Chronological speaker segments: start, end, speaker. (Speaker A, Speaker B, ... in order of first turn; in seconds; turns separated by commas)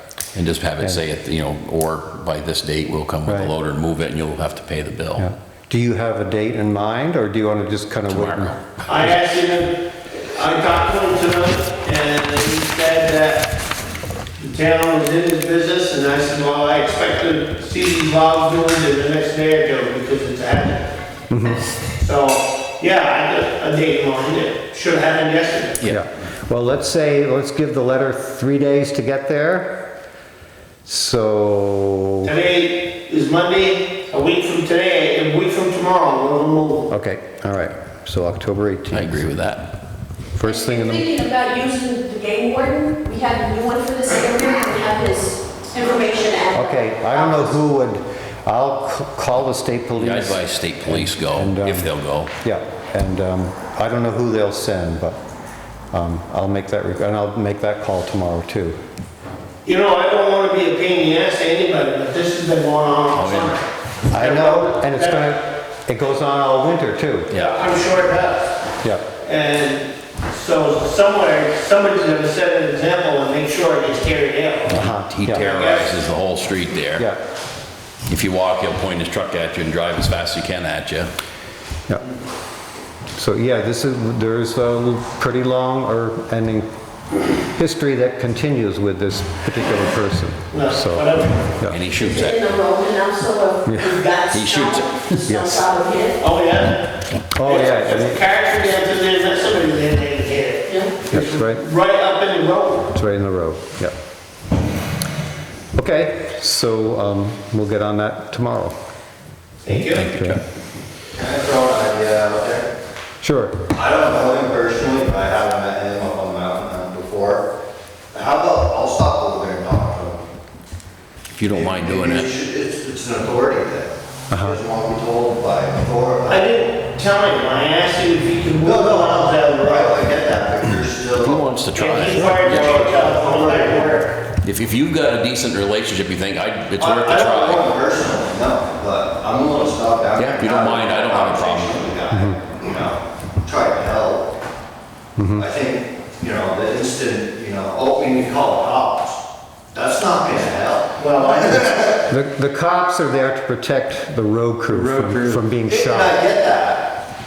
Speaker A: 0.3-5.3, Speaker B: 3.2-3.5, Speaker B: 5.2-8.8, Speaker A: 8.1-9.0, Speaker C: 8.9-13.5, Speaker C: 14.4-20.9, Speaker B: 21.3-21.7, Speaker C: 22.0-25.8, Speaker B: 25.9-29.9, Speaker B: 30.9-32.3, Speaker C: 32.2-36.9, Speaker B: 36.9-39.4, Speaker A: 38.9-39.7, Speaker B: 40.4-41.1, Speaker D: 40.4-47.5, Speaker B: 46.5-51.9, Speaker A: 50.0-52.3, Speaker B: 52.4-55.2, Speaker B: 55.9-58.8, Speaker C: 59.6-65.3, Speaker A: 63.1-63.6, Speaker B: 64.1-67.3, Speaker A: 67.3-67.6, Speaker C: 67.3-68.6, Speaker C: 69.2-74.8, Speaker B: 74.7-75.5, Speaker A: 74.8-77.1, Speaker C: 75.4-75.9, Speaker A: 78.1-81.1, Speaker B: 83.2-86.7, Speaker B: 87.5-91.8, Speaker C: 90.5-91.5, Speaker A: 91.7-92.5, Speaker D: 92.0-96.2, Speaker B: 93.7-94.0, Speaker A: 94.3-95.1, Speaker B: 95.2-95.7, Speaker C: 96.2-102.9, Speaker B: 97.3-98.2, Speaker D: 100.7-101.0, Speaker B: 101.1-101.6, Speaker B: 102.9-104.0, Speaker B: 105.7-108.8, Speaker C: 109.6-110.1, Speaker A: 110.0-110.4, Speaker B: 110.0-110.4, Speaker E: 111.2-112.7, Speaker B: 113.2-113.7, Speaker E: 113.7-117.5, Speaker E: 118.1-120.2, Speaker A: 121.3-122.3, Speaker E: 121.5-126.5, Speaker B: 124.3-124.6, Speaker C: 126.3-129.9, Speaker E: 128.6-131.4, Speaker A: 131.2-132.9, Speaker C: 131.7-134.2, Speaker E: 132.5-134.0, Speaker A: 134.4-137.7, Speaker E: 136.8-144.3, Speaker A: 140.2-141.8, Speaker B: 142.1-142.4, Speaker B: 145.2-145.5, Speaker E: 145.4-149.2, Speaker E: 149.7-152.1, Speaker C: 151.0-151.5, Speaker B: 152.1-156.2, Speaker E: 154.7-157.0